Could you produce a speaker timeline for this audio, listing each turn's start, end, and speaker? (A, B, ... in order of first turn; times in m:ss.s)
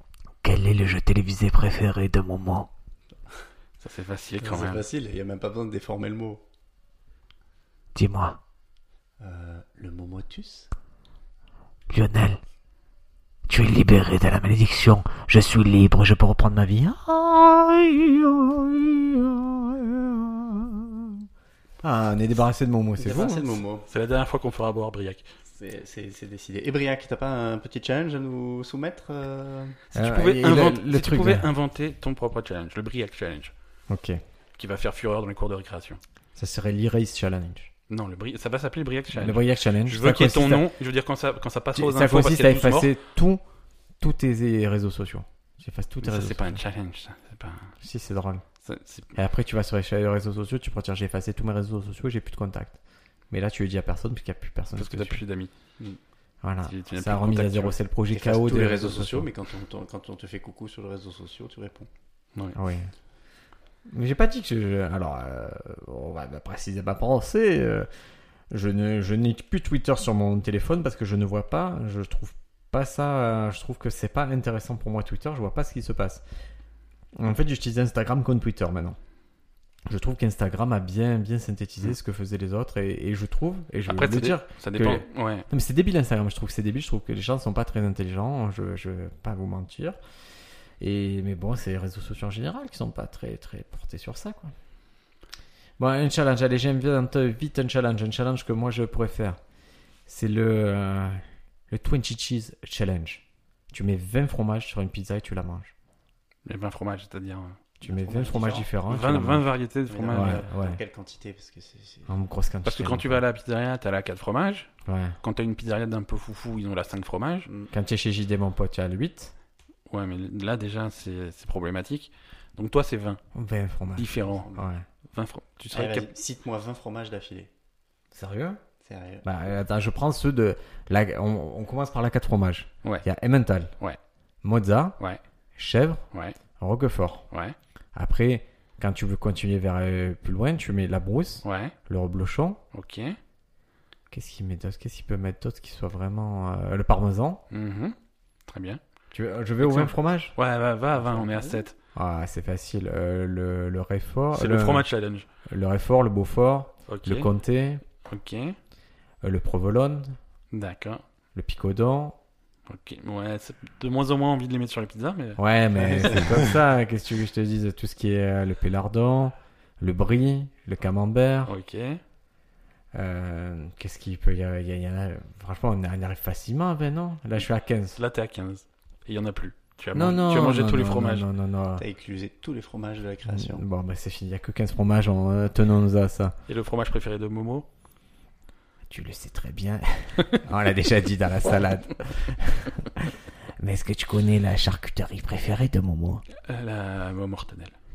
0:00.4-0:02.7 A
0:03.8-0:04.8 B
0:04.4-0:06.4 C
0:08.0-0:08.4 A
0:09.2-0:10.7 C
0:11.9-0:12.4 A
0:13.5-0:19.8 A
0:21.8-0:23.6 D
0:23.0-0:23.9 C
0:23.9-0:25.3 B
0:25.5-0:29.8 C
0:29.9-0:33.5 B
0:29.9-0:31.5 D
0:33.9-0:34.2 D
0:34.6-0:36.0 B
0:36.4-0:37.7 D
0:37.9-0:42.9 B
0:39.1-0:40.7 D
0:41.8-0:43.4 D
0:44.0-0:46.6 D
0:46.0-0:47.7 B
0:47.8-0:48.4 D
0:48.6-0:49.1 B
0:49.1-0:52.8 D
0:53.3-0:55.2 D
0:54.8-0:55.5 B
0:56.4-0:59.3 D
0:56.6-0:57.8 B
0:58.1-1:01.9 C
1:02.6-1:02.9 D
1:03.9-1:07.9 D
1:08.5-1:16.2 D
1:17.2-1:19.0 D
1:19.9-1:30.0 D
1:23.9-1:25.5 B
1:30.8-1:34.5 D
1:35.8-1:39.4 D
1:40.1-1:45.7 D
1:46.5-1:47.6 B
1:47.8-1:49.5 D
1:47.8-1:48.7 C
1:48.9-1:50.4 B
1:49.9-1:52.1 C
1:50.1-1:50.8 D
1:52.1-1:53.2 D
1:52.6-1:54.7 B
1:54.8-1:55.2 D
1:55.2-1:57.5 B
1:57.5-1:57.7 C
1:57.7-1:59.3 D
1:59.9-2:03.2 B
2:03.3-2:04.8 D
2:04.0-2:04.5 B
2:04.1-2:04.7 C
2:05.1-2:06.1 B
2:05.7-2:07.5 C
2:08.1-2:08.6 D
2:08.8-2:09.3 C
2:09.2-2:13.8 D
2:14.4-2:15.0 D
2:15.6-2:16.1 D
2:16.1-2:16.4 B
2:16.6-2:17.3 D
2:17.3-2:17.6 B
2:17.9-2:22.6 D
2:21.4-2:21.8 B
2:22.7-2:23.2 B
2:24.1-2:27.4 D
2:27.5-2:28.0 B
2:28.5-2:28.8 B
2:29.1-2:30.4 D
2:29.6-2:31.8 B
2:30.9-2:31.7 C
2:32.0-2:34.9 D
2:34.3-2:35.3 B
2:35.5-2:37.8 D
2:36.9-2:37.3 B
2:38.0-2:38.6 B
2:39.2-2:40.2 D
2:40.5-2:41.0 B
2:41.4-2:42.2 D
2:42.7-2:45.4 B
2:45.4-2:51.5 D
2:46.0-2:46.2 B
2:51.5-2:52.0 B
2:52.9-2:58.0 D
2:58.0-3:01.3 B
2:59.9-3:01.8 D
3:01.8-3:03.6 C
3:03.3-3:06.4 D
3:06.5-3:07.7 B
3:08.9-3:09.8 A
3:10.4-3:13.1 D
3:13.6-3:16.2 A
3:16.5-3:17.8 B